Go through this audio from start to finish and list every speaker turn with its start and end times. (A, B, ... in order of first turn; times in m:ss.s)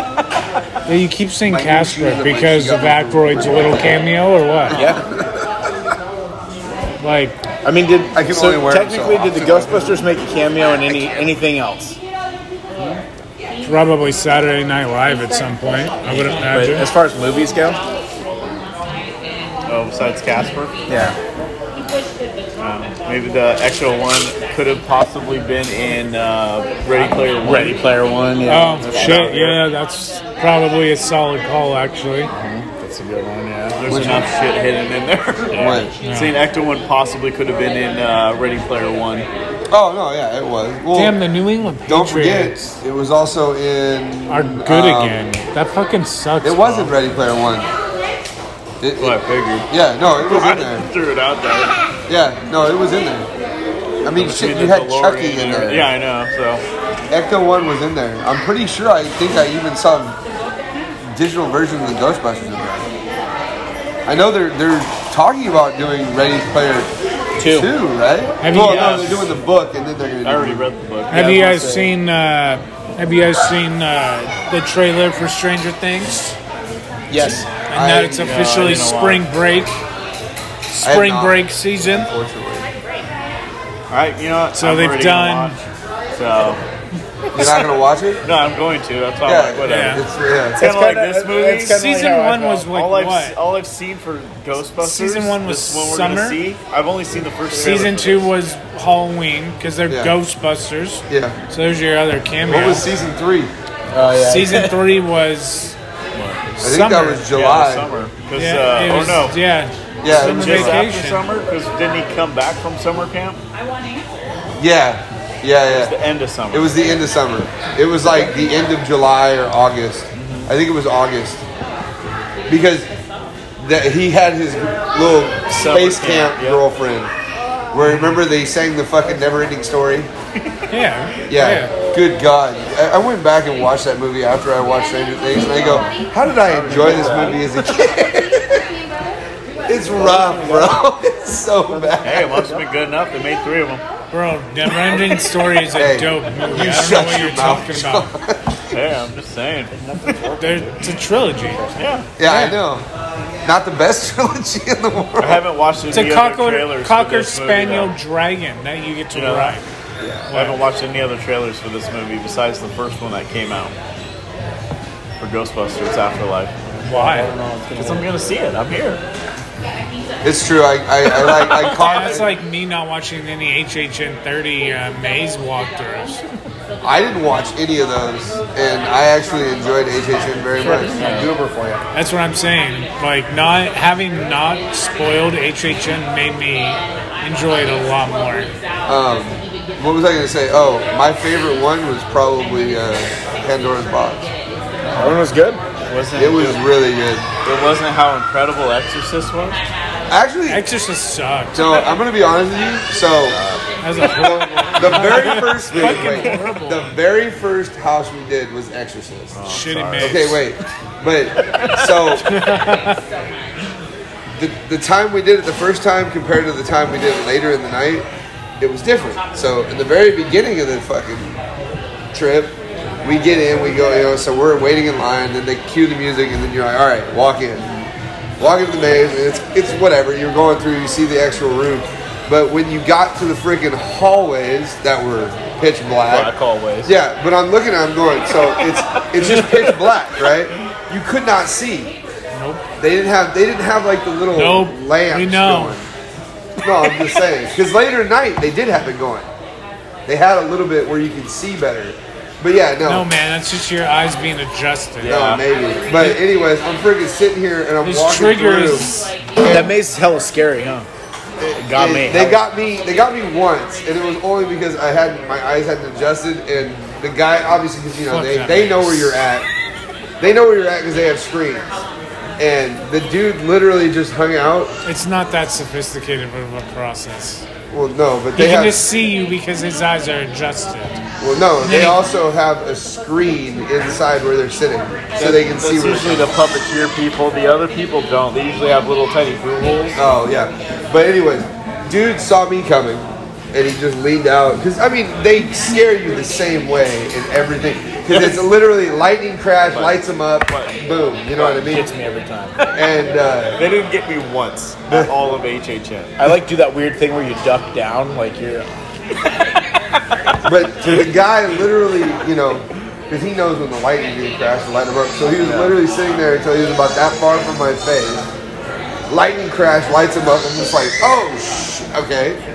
0:00.9-0:04.8 A
0:01.5-0:04.1 B
0:04.7-0:05.5 B
0:04.7-0:05.0 C
0:07.0-0:07.4 A
0:07.6-0:12.0 C
0:08.1-0:10.0 B
0:13.6-0:16.9 A
0:16.2-0:17.8 C
0:19.7-0:20.8 D
0:20.9-0:21.2 C
0:22.6-0:27.8 D
0:27.0-0:29.4 C
0:28.5-0:32.3 A
0:28.9-0:29.6 D
0:32.3-0:33.8 C
0:33.8-0:39.3 D
0:33.9-0:34.2 B
0:35.5-0:35.9 B
0:36.0-0:36.4 A
0:39.7-0:41.2 B
0:40.9-0:42.7 A
0:41.9-0:45.3 B
0:44.3-0:46.9 A
0:46.4-0:47.7 B
0:48.8-0:49.2 B
0:49.0-0:51.8 D
0:49.7-0:50.9 B
0:52.1-0:53.3 B
0:54.0-0:55.9 B
0:54.2-0:56.6 D
0:57.1-1:00.2 B
1:01.1-1:02.9 B
1:04.1-1:06.9 B
1:07.4-1:07.7 C
1:07.4-1:10.7 B
1:08.4-1:09.1 A
1:08.5-1:09.3 D
1:10.2-1:11.5 D
1:11.1-1:16.4 A
1:11.1-1:11.9 C
1:17.1-1:17.5 C
1:17.5-1:19.8 A
1:17.7-1:18.4 B
1:18.2-1:19.3 D
1:20.7-1:22.1 A
1:20.8-1:22.7 B
1:23.9-1:25.6 D
1:24.5-1:25.6 A
1:26.1-1:26.6 D
1:27.3-1:28.2 B
1:28.2-1:30.0 D
1:29.2-1:30.6 B
1:29.7-1:30.0 A
1:30.6-1:31.8 D
1:30.6-1:32.7 C
1:31.7-1:33.4 A
1:32.7-1:38.3 D
1:34.8-1:36.4 A
1:37.6-1:43.0 A
1:39.9-1:40.2 B
1:41.1-1:41.4 B
1:42.5-1:43.5 B
1:43.9-1:44.8 C
1:44.2-1:45.8 A
1:46.1-1:46.5 D
1:46.6-1:47.3 A
1:46.6-1:47.9 B
1:47.3-1:49.4 D
1:48.4-1:51.2 A
1:50.0-1:50.8 B
1:50.1-1:53.4 D
1:54.6-1:55.9 B
1:55.7-1:57.0 D
1:56.5-2:01.4 B
2:00.2-2:00.5 D
2:02.5-2:02.9 B
2:03.6-2:07.1 B
2:05.5-2:06.6 D
2:07.7-2:10.1 B
2:10.7-2:11.7 A
2:11.3-2:18.6 B
2:15.6-2:17.6 D
2:19.7-2:22.5 B
2:19.9-2:20.8 C
2:21.7-2:22.6 C
2:22.0-2:23.8 D
2:24.1-2:28.1 A
2:25.7-2:28.6 B
2:28.7-2:29.8 D
2:29.8-2:30.4 C
2:30.4-2:31.7 A
2:31.8-2:32.1 D
2:32.2-2:32.9 B
2:32.2-2:32.6 A
2:33.4-2:35.4 B
2:35.2-2:37.9 D
2:35.9-2:39.6 A
2:39.1-2:39.6 D
2:40.0-2:40.3 B
2:40.3-2:40.6 A
2:40.3-2:43.8 D
2:45.2-2:46.6 D
2:46.8-2:48.2 C
2:46.8-2:47.3 A
2:47.8-2:49.0 D
2:50.2-2:52.3 B
2:51.8-2:56.2 A
2:56.8-3:01.8 B
3:00.7-3:01.3 D
3:01.0-3:01.4 C
3:01.9-3:08.5 A
3:08.9-3:14.3 B
3:14.8-3:15.2 D
3:15.0-3:15.6 C
3:15.9-3:16.6 D
3:16.2-3:17.3 B
3:17.4-3:19.6 D
3:20.1-3:20.6 B
3:20.5-3:21.6 A
3:21.6-3:23.4 B
3:23.3-3:24.3 D
3:23.8-3:26.9 A
3:24.8-3:29.4 B
3:25.7-3:26.4 D
3:29.3-3:30.3 D
3:29.5-3:30.4 A
3:30.0-3:32.3 B
3:31.4-3:31.8 D
3:32.2-3:33.0 A
3:34.4-3:38.1 B
3:38.6-3:41.4 B
3:42.1-3:47.8 B
3:48.4-3:56.3 B
3:56.1-3:57.0 D
3:56.8-4:02.0 B
3:58.3-3:59.9 D
4:02.3-4:02.6 A
4:02.8-4:05.9 B
4:04.4-4:05.8 A
4:06.6-4:09.3 B
4:10.1-4:13.1 B
4:12.8-4:15.3 A
4:15.0-4:15.5 D
4:15.0-4:19.7 B
4:15.9-4:16.2 A
4:17.8-4:19.1 A
4:19.5-4:20.9 C
4:21.4-4:29.5 B
4:21.6-4:22.4 C
4:28.1-4:29.2 A
4:30.2-4:31.8 B
4:32.4-4:34.7 B
4:34.8-4:37.5 A
4:37.7-4:38.9 B
4:38.4-4:41.0 A
4:41.2-4:46.3 B
4:41.6-4:42.0 A
4:45.2-4:50.0 D
4:50.0-5:01.9 B
4:58.1-4:58.5 D
4:59.7-5:00.7 D
5:01.4-5:02.5 C
5:02.7-5:03.6 B
5:03.6-5:06.2 D
5:06.2-5:08.7 C
5:10.4-5:18.3 B
5:15.4-5:15.7 D
5:19.1-5:22.4 B